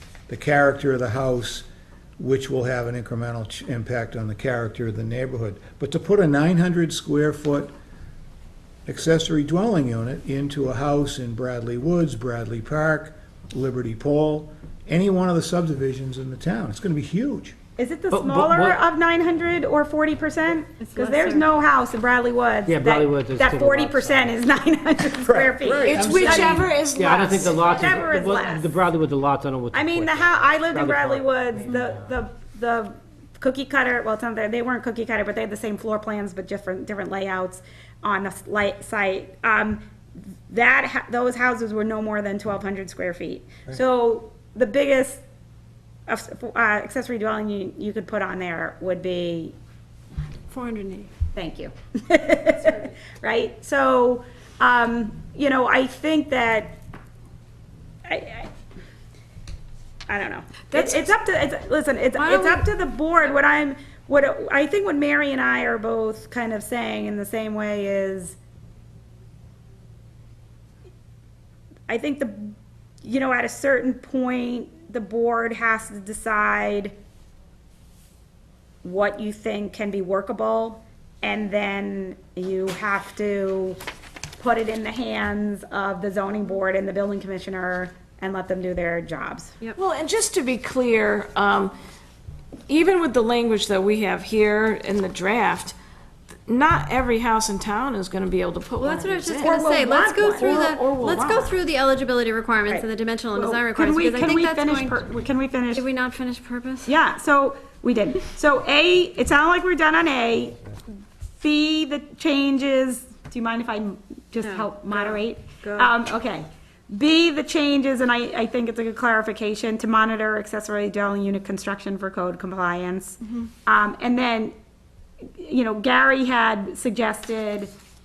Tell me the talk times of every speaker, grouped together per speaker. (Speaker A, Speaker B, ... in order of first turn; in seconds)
Speaker A: 0.3-1.6, 2.2-7.7, 8.8-17.6, 25.2-26.7
Speaker B: 17.8-26.6, 27.2-28.7, 29.7-39.8, 40.5-45.2, 46.1-49.5, 51.3-56.8, 58.0-58.5, 60.1-68.3, 71.9-76.9, 78.8-83.8, 84.4-89.5, 99.4-100.5, 102.7-105.8, 106.8-110.6, 111.4-124.5, 125.3-127.7
Speaker C: 18.1-18.8, 22.7-24.3, 26.9-31.9
Speaker D: 20.8-21.4, 50.5-51.1, 62.2-62.6, 98.8-105.0, 105.7-106.9, 114.4-115.9, 123.2-123.5
Speaker E: 25.8-27.8, 89.8-91.7, 92.7-95.8, 96.5-101.6